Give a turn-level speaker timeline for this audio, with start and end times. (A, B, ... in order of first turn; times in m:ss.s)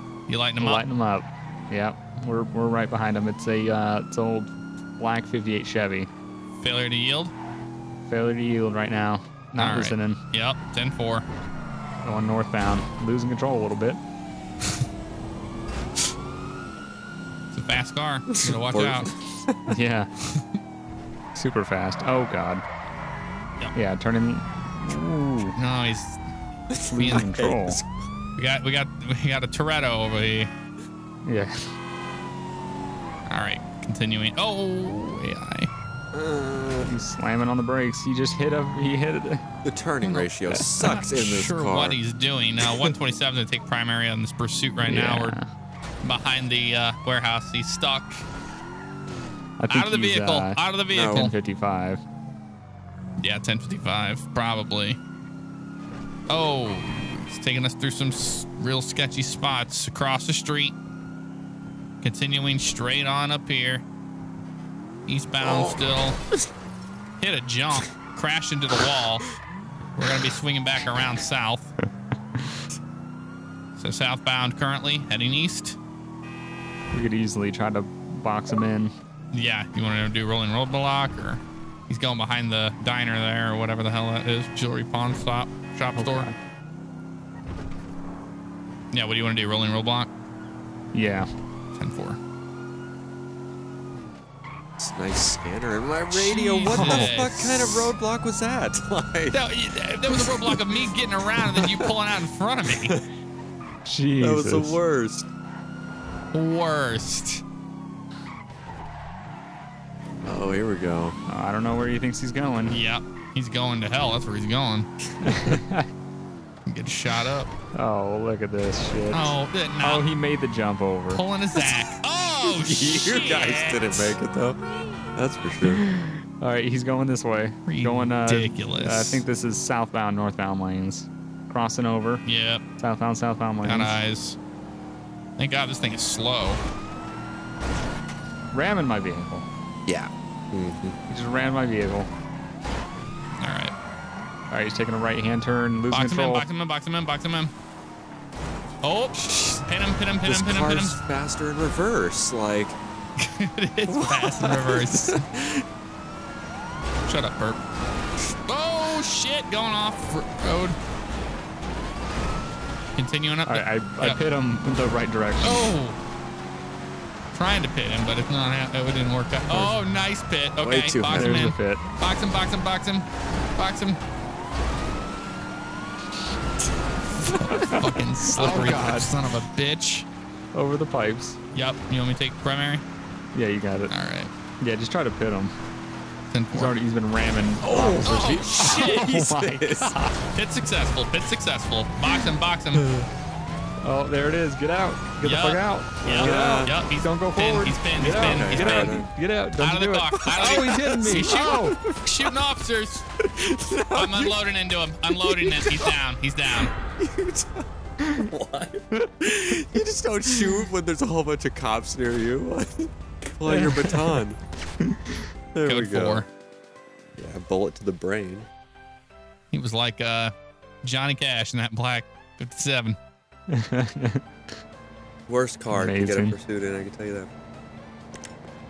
0:00.3-0:00.8 A
0:00.6-0:06.1 B
0:06.6-0:07.3 A
0:08.1-0:10.2 B
0:09.6-0:11.2 A
0:12.0-0:14.0 B
0:17.5-0:19.1 A
0:18.4-0:19.8 C
0:19.7-0:20.1 B
0:21.3-0:22.6 B
0:23.8-0:25.6 B
0:25.6-0:26.2 A
0:26.7-0:27.9 C
0:26.9-0:27.8 B
0:27.0-0:27.3 A
0:28.4-0:30.5 A
0:31.2-0:31.7 B
0:33.3-0:35.7 A
0:36.1-0:37.0 C
0:36.8-0:39.4 B
0:39.6-0:42.0 C
0:40.0-0:45.4 A
0:42.6-0:42.9 C
0:44.8-0:45.5 B
0:46.0-0:48.2 A
0:49.6-0:52.0 B
0:49.7-0:51.3 A
0:50.9-0:51.3 C
0:53.2-0:55.0 A
0:56.3-1:00.8 A
1:02.0-1:03.8 A
1:05.1-1:06.2 A
1:05.4-1:06.5 C
1:07.2-1:09.3 A
1:10.0-1:11.7 A
1:13.8-1:15.8 A
1:16.9-1:18.9 B
1:19.3-1:26.3 A
1:25.9-1:26.4 B
1:28.9-1:30.1 A
1:30.9-1:31.3 B
1:31.7-1:32.2 A
1:34.8-1:39.4 C
1:36.1-1:37.9 A
1:36.7-1:37.1 B
1:39.3-1:43.0 A
1:40.1-1:40.8 C
1:41.4-1:41.9 C
1:42.7-1:43.0 C
1:43.8-1:44.8 B
1:44.2-1:45.3 C
1:46.3-1:47.4 A
1:50.2-1:51.2 C
1:51.3-1:52.8 B
1:52.7-1:54.9 A
1:55.2-1:55.9 B
1:55.3-1:55.6 C
1:56.7-1:57.5 A
1:57.7-2:01.2 B
1:59.1-2:00.1 A
2:01.1-2:04.2 A
2:02.4-2:04.6 C
2:05.2-2:05.8 C
2:05.6-2:12.2 B
2:07.7-2:09.2 A
2:12.2-2:12.6 A
2:12.8-2:14.0 B
2:13.6-2:14.4 A
2:15.4-2:16.6 A
2:18.5-2:19.5 B
2:19.9-2:21.0 C
2:21.1-2:22.1 B
2:23.4-2:23.7 A
2:24.5-2:26.5 B
2:25.9-2:27.5 A
2:28.8-2:31.0 A
2:29.2-2:29.6 C
2:30.2-2:32.8 C
2:33.2-2:35.2 A
2:33.9-2:35.6 C
2:37.1-2:37.6 A
2:38.5-2:40.8 A
2:43.0-2:44.2 A
2:43.5-2:45.7 B
2:45.4-2:46.0 A
2:47.3-2:54.0 A
2:50.6-2:51.5 C
2:51.1-2:51.8 B
2:57.3-3:00.1 A
2:57.7-2:59.1 B
3:00.5-3:01.4 B
3:01.5-3:02.8 A
3:03.3-3:03.9 B
3:03.9-3:04.3 A
3:04.6-3:05.5 B
3:06.3-3:06.7 A
3:06.5-3:10.2 B
3:07.6-3:10.0 C
3:08.0-3:09.1 A
3:10.4-3:12.9 A
3:12.7-3:13.1 C
3:13.8-3:21.8 B
3:15.2-3:19.0 A
3:16.1-3:16.8 C
3:18.0-3:19.1 C
3:19.6-3:23.0 A
3:20.3-3:22.4 C
3:23.2-3:24.4 C
3:23.9-3:26.7 A
3:25.2-3:26.0 C
3:26.6-3:27.7 C
3:28.2-3:34.4 C
3:29.0-3:29.5 B
3:33.5-3:34.2 B
3:35.5-3:36.2 C
3:35.6-3:36.3 A
3:37.2-3:38.5 C
3:39.5-3:40.3 A
3:40.8-3:43.0 A
3:43.5-3:44.2 B
3:45.3-3:47.3 C
3:45.7-3:46.4 B